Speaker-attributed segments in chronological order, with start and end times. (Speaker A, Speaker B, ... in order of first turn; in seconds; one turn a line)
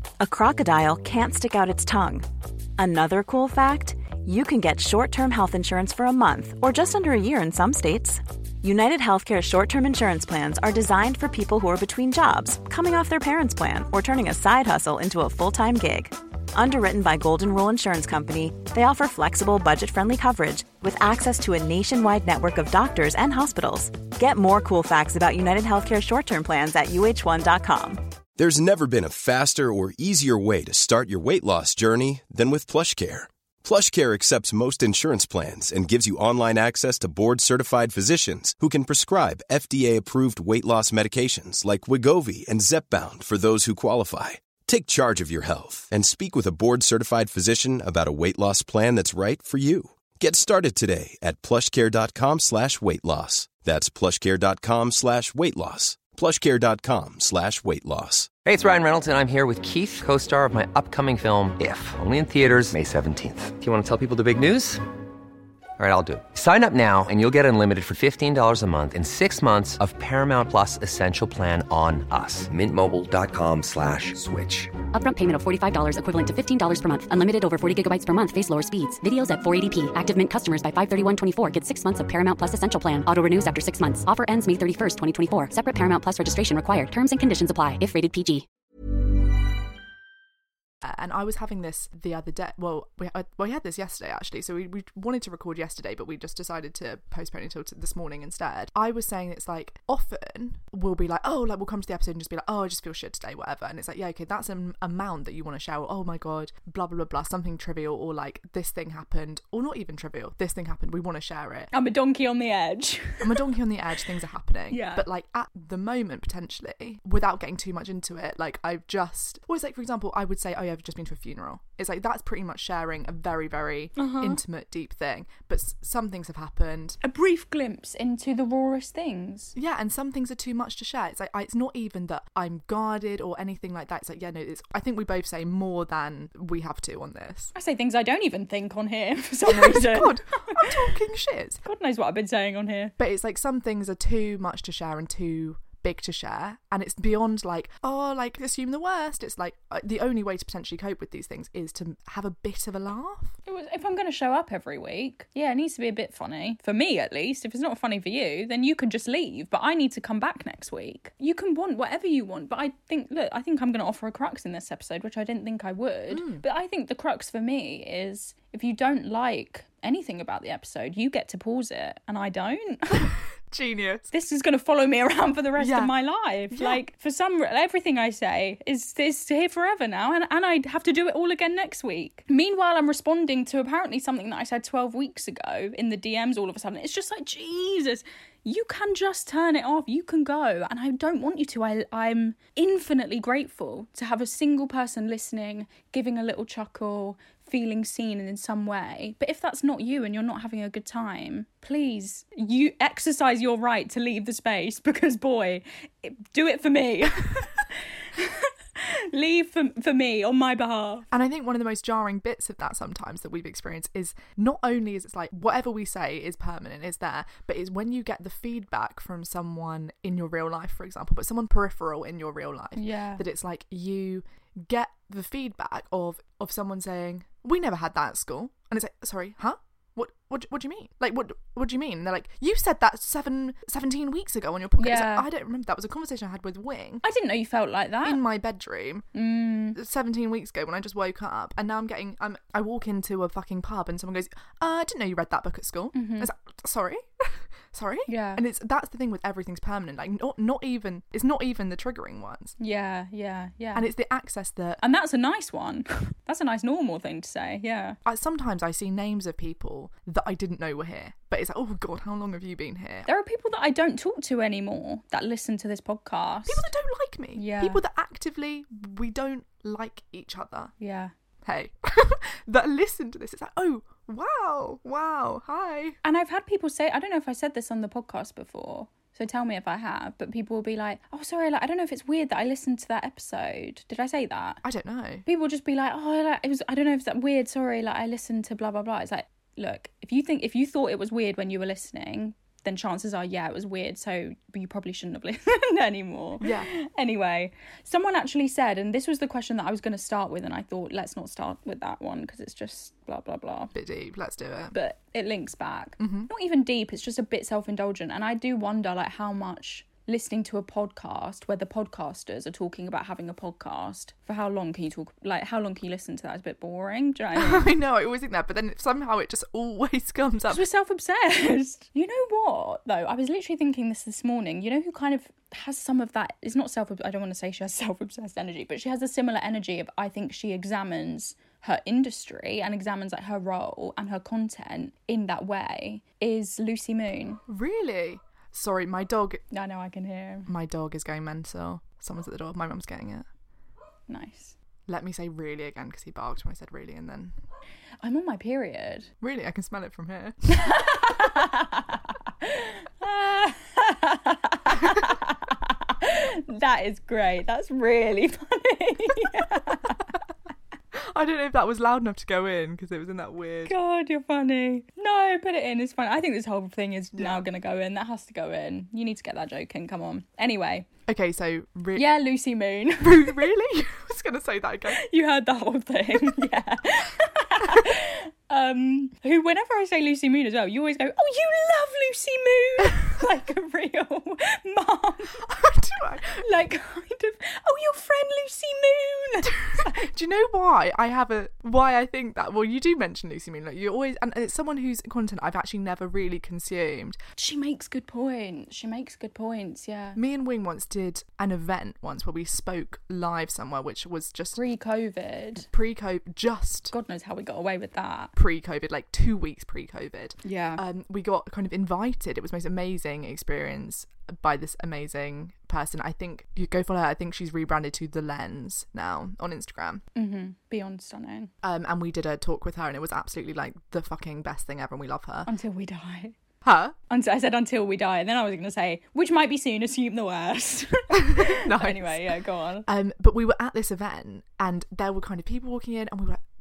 Speaker A: 0.2-28.0
Speaker B: 28.4-58.3
Speaker C: 58.4-64.8
Speaker C: 65.8-74.7
Speaker D: 74.9-88.5
Speaker E: 90.8-111.7
Speaker F: 111.7-113.5
Speaker E: 113.2-127.0
Speaker F: 114.7-115.0
Speaker F: 124.0-124.4
Speaker F: 127.0-129.5
Speaker E: 129.6-137.5
Speaker F: 137.5-140.9
Speaker E: 139.4-141.6
Speaker F: 141.6-142.9
Speaker E: 143.0-153.3
Speaker F: 153.5-173.1
Speaker E: 166.1-166.4
Speaker E: 173.5-174.1
Speaker F: 174.1-211.1
Speaker E: 175.6-175.9
Speaker E: 176.5-176.8
Speaker E: 211.1-237.0
Speaker F: 222.8-223.2
Speaker F: 234.8-235.3
Speaker F: 237.0-238.2
Speaker E: 238.0-239.1
Speaker F: 239.1-239.8
Speaker E: 239.7-252.5
Speaker F: 245.9-246.3
Speaker F: 248.1-248.4
Speaker F: 252.6-253.9
Speaker E: 253.7-254.8
Speaker F: 254.8-258.0
Speaker E: 258.1-263.1
Speaker F: 263.1-266.7
Speaker E: 266.5-270.7
Speaker F: 267.4-267.8
Speaker F: 270.8-271.1
Speaker E: 271.4-276.0
Speaker F: 276.0-284.6
Speaker E: 284.6-285.3
Speaker F: 285.3-303.7
Speaker E: 296.4-296.7
Speaker E: 303.7-304.8
Speaker F: 304.7-317.7
Speaker E: 306.0-306.3
Speaker E: 317.3-320.6
Speaker F: 320.5-337.4
Speaker E: 337.5-339.4
Speaker F: 339.5-340.5
Speaker E: 340.5-343.3
Speaker F: 344.1-344.5
Speaker E: 344.9-347.4
Speaker F: 348.0-349.1
Speaker E: 349.2-350.7
Speaker F: 350.5-360.1
Speaker E: 360.9-363.7
Speaker F: 363.6-370.9
Speaker E: 367.1-367.4
Speaker E: 371.1-372.1
Speaker F: 371.9-373.5
Speaker E: 373.0-375.0
Speaker F: 374.9-385.5
Speaker E: 385.4-386.4
Speaker F: 386.4-390.1
Speaker E: 389.7-397.2
Speaker F: 397.4-400.2
Speaker E: 400.1-404.6
Speaker F: 404.5-405.7
Speaker E: 405.6-406.9
Speaker F: 406.9-408.3
Speaker E: 408.4-420.0
Speaker F: 410.4-410.8
Speaker F: 420.1-421.5
Speaker E: 421.6-425.5
Speaker F: 425.4-426.3
Speaker E: 426.6-426.9
Speaker F: 427.1-432.9
Speaker E: 431.1-432.2
Speaker E: 432.9-436.4